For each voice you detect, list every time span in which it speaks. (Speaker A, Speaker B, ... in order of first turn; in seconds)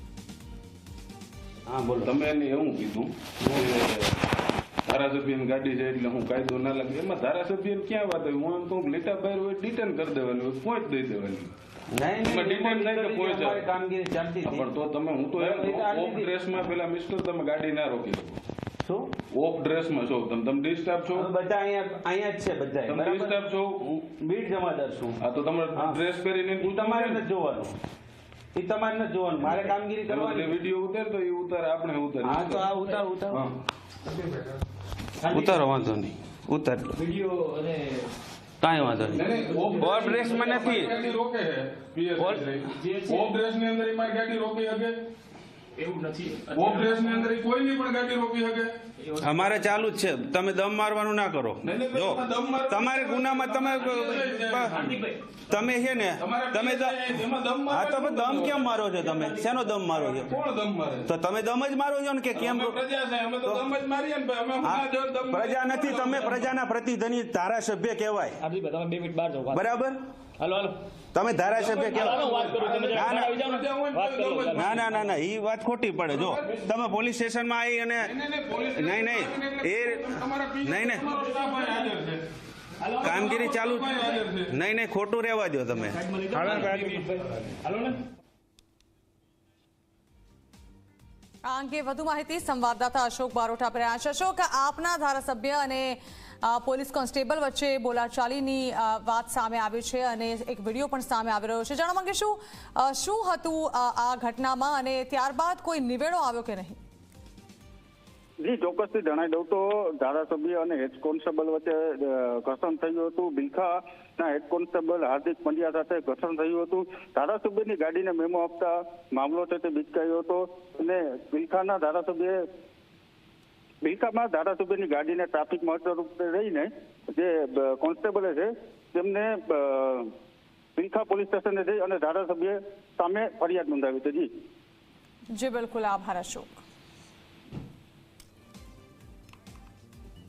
Speaker A: 1.7-2.1, 3.4-3.7, 11.9-14.7, 15.3-16.3, 18.8-19.1, 21.1-25.2, 25.7-26.0, 26.6-27.8, 28.5-30.6, 32.2-33.5, 35.2-37.0, 38.6-39.3, 39.8-40.9, 42.2-42.4, 49.2-54.9, 55.5-57.0, 57.7-60.4, 61.1-62.8, 64.6-68.4, 69.5-70.0, 71.1-72.3, 72.9-73.3, 74.5-78.1, 78.7-81.0, 83.0-86.9
Speaker B: 2.0-4.2, 4.9-11.5, 12.2-13.7, 14.4-18.4, 19.3-21.3, 22.9-23.8, 25.2-27.2, 30.1-32.7, 39.1-45.0, 46.5-48.8, 51.6-55.0, 56.2-58.9, 59.9-61.1, 62.4-66.5, 71.5-74.9, 76.1-76.6, 78.0-82.2, 83.0-84.5
Speaker C: 35.2-35.6, 37.0-38.1, 39.2-41.1, 42.7-43.4, 45.8-47.3, 49.0-49.7, 54.0-55.2, 59.0-59.8, 68.4-69.6, 70.4-70.8, 71.9-74.9, 81.1-81.9, 82.8-83.2, 86.0-88.0
Speaker D: 91.5-106.8, 135.3-136.6
Speaker E: 108.4-122.4, 123.8-130.1, 130.8-134.3